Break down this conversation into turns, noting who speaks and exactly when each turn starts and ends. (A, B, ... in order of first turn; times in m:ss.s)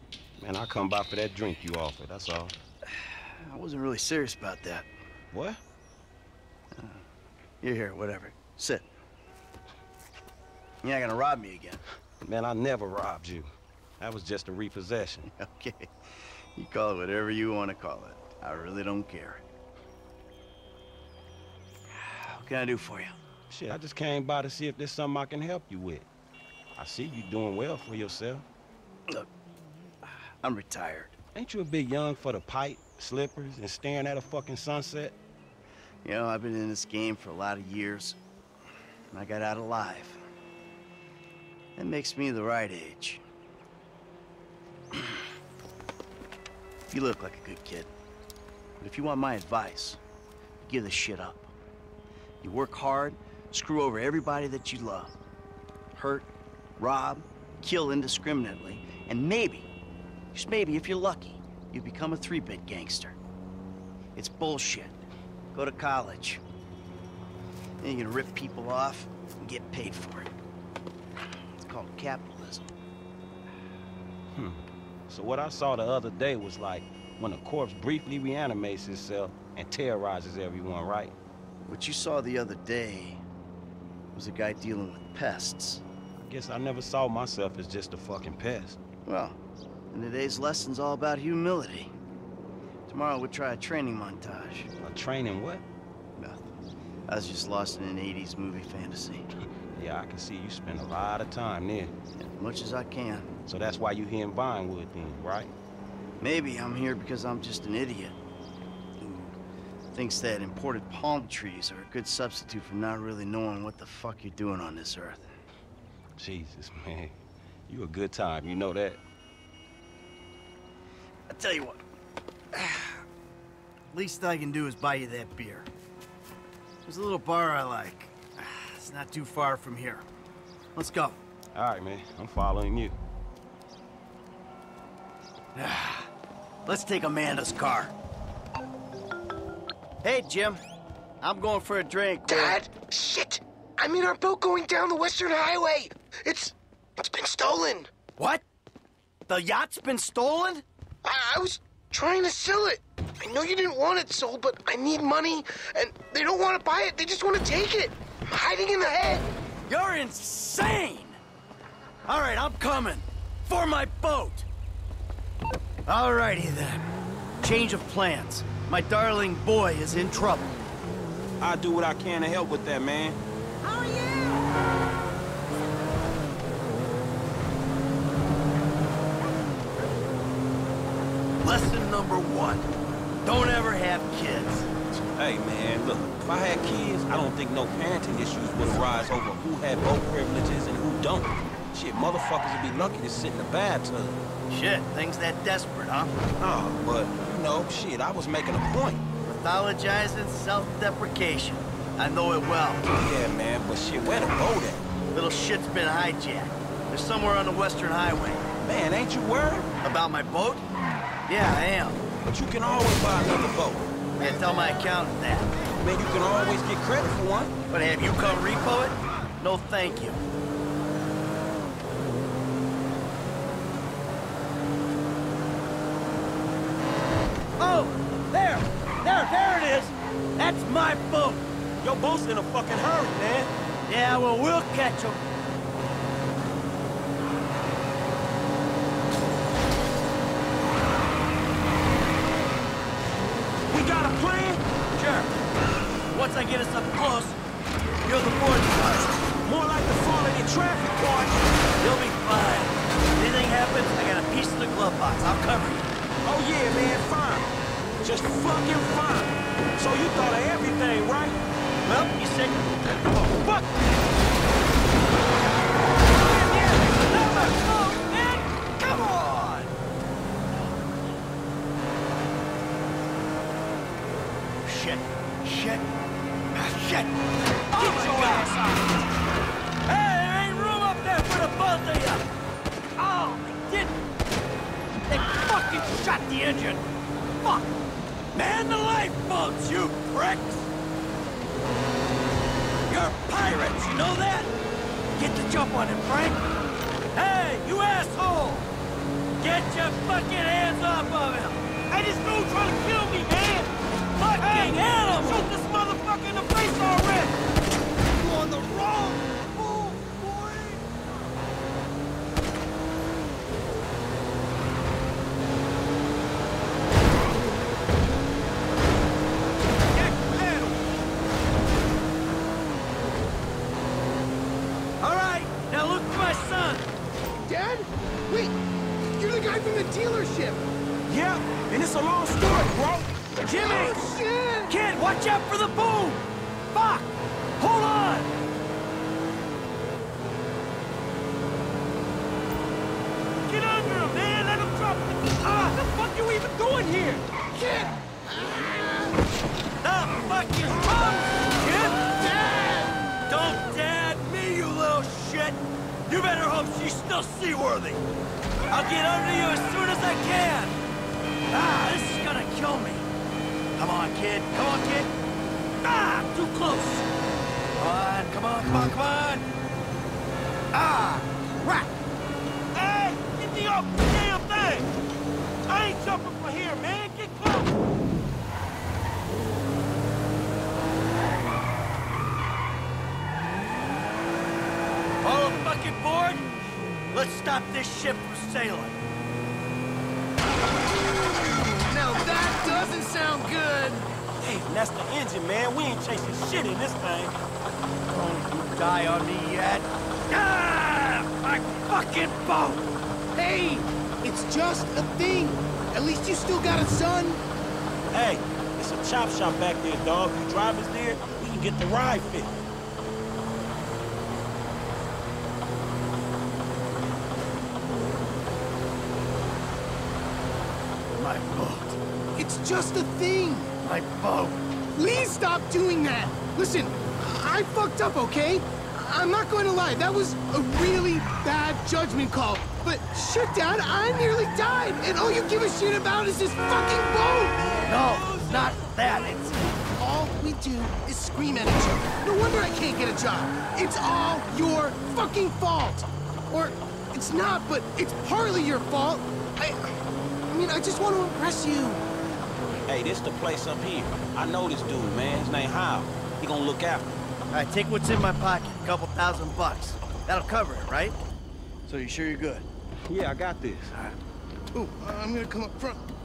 0:00.4-0:02.5 A
0:03.0-0:04.8 B
0:05.3-0:05.6 A
0:06.7-0:07.0 B
0:07.6-0:08.9 B
0:10.8-0:11.8 B
0:12.2-0:13.5 A
0:14.0-0:15.3 A
0:15.2-0:15.9 B
0:16.6-0:19.4 B
0:22.0-0:23.1 B
0:23.5-0:26.1 A
0:26.8-0:28.4 A
0:30.4-0:31.1 B
0:31.3-0:35.1 A
0:36.0-0:38.2 B
0:39.1-0:40.2 B
0:41.8-0:43.2 B
0:44.9-0:45.2 B
0:46.9-0:47.9 B
0:48.8-0:50.0 B
0:50.6-0:51.5 B
0:52.4-0:55.1 B
0:55.9-0:59.7 B
1:00.3-1:03.2 B
1:04.1-1:05.0 B
1:05.5-1:06.4 B
1:07.8-1:10.3 B
1:11.6-1:12.7 B
1:14.3-1:21.1 A
1:21.6-1:23.2 B
1:24.1-1:25.8 B
1:26.2-1:28.8 A
1:29.0-1:29.4 B
1:29.9-1:31.9 B
1:32.9-1:34.7 B
1:34.8-1:35.6 A
1:36.2-1:36.5 B
1:37.1-1:39.3 B
1:39.7-1:41.9 A
1:42.2-1:43.3 B
1:43.4-1:45.5 A
1:46.2-1:48.2 B
1:49.0-1:49.4 B
1:49.9-1:55.3 B
1:56.2-1:57.1 A
1:57.7-1:59.0 A
2:01.3-2:01.8 B
2:02.5-2:03.0 B
2:03.9-2:05.7 B
2:06.8-2:10.0 B
2:10.7-2:11.2 B
2:11.5-2:12.9 A
2:15.5-2:16.1 B
2:16.6-2:17.9 B
2:20.0-2:20.6 B
2:21.2-2:22.6 B
2:22.3-2:27.9 C
2:28.2-2:28.4 B
2:29.3-2:30.6 B
2:31.0-2:39.2 C
2:39.7-2:41.2 B
2:42.1-2:44.5 B
2:45.8-2:46.9 B
2:47.4-2:50.6 B
2:51.4-2:53.2 A
2:53.6-2:54.3 B
3:01.4-3:02.7 B
3:03.2-3:04.7 B
3:04.9-3:14.2 A
3:14.5-3:16.1 B
3:16.4-3:19.0 A
3:19.2-3:22.9 B
3:23.0-3:24.8 A
3:25.1-3:28.4 B
3:28.6-3:29.7 A
3:29.8-3:30.6 B
3:31.3-3:32.0 B
3:32.3-3:33.9 A
3:34.2-3:35.5 B
3:35.8-3:37.5 A
3:37.7-3:40.2 B
3:47.6-3:51.4 B
3:51.8-3:53.5 A
3:53.9-3:55.2 B
4:03.7-4:04.6 A
4:04.9-4:05.3 B
4:06.1-4:07.4 B
4:08.0-4:09.1 B
4:09.4-4:11.4 A
4:11.8-4:15.9 B
4:16.2-4:17.5 A
4:18.0-4:21.4 A
4:21.8-4:23.9 B
4:26.2-4:28.1 B
4:26.7-4:28.4 A
4:28.8-4:29.7 B
4:34.6-4:35.8 B
4:36.5-4:37.2 B
4:37.7-4:38.6 B
4:37.8-4:38.8 A
4:39.8-4:42.2 B
4:43.0-4:44.0 B
4:45.1-4:46.8 B
4:47.4-4:47.7 B
4:48.3-4:50.7 B
4:52.9-4:54.5 B
4:55.1-4:56.4 B
4:57.1-4:58.7 B
4:59.4-5:01.8 B
5:01.9-5:03.7 A
5:04.2-5:05.5 B
5:04.4-5:07.3 A
5:08.2-5:10.8 B
5:20.1-5:20.7 B
5:25.0-5:26.9 B
5:27.4-5:30.6 C
5:31.1-5:33.9 A
5:33.4-5:34.7 C
5:33.6-5:34.0 B
5:34.7-5:36.2 B
5:36.7-5:38.3 B
5:43.5-5:47.2 A
5:47.5-5:49.2 C
5:49.8-5:52.0 B
5:51.6-5:53.0 C
5:53.3-5:58.0 B
5:58.7-6:00.8 B
6:01.5-6:03.1 B
6:03.8-6:05.1 B
6:05.8-6:07.0 B
6:07.8-6:09.5 B
6:10.7-6:11.9 B
6:12.7-6:14.9 A
6:15.7-6:17.7 A
6:25.2-6:26.5 B
6:27.1-6:29.0 B
6:31.8-6:34.1 C
6:34.4-6:37.4 A
6:38.1-6:42.8 B
6:43.3-6:47.4 C
6:48.1-6:52.5 A
7:01.1-7:02.0 B
7:02.3-7:03.7 C
7:03.8-7:04.6 B
7:04.9-7:17.6 C
7:17.8-7:18.6 A
7:17.8-7:19.6 B
7:20.0-7:30.0 C
7:30.5-7:32.0 C
7:32.9-7:37.1 A
7:37.5-7:41.2 B
7:41.8-7:42.7 B
7:43.1-7:43.9 A
7:44.7-7:46.1 C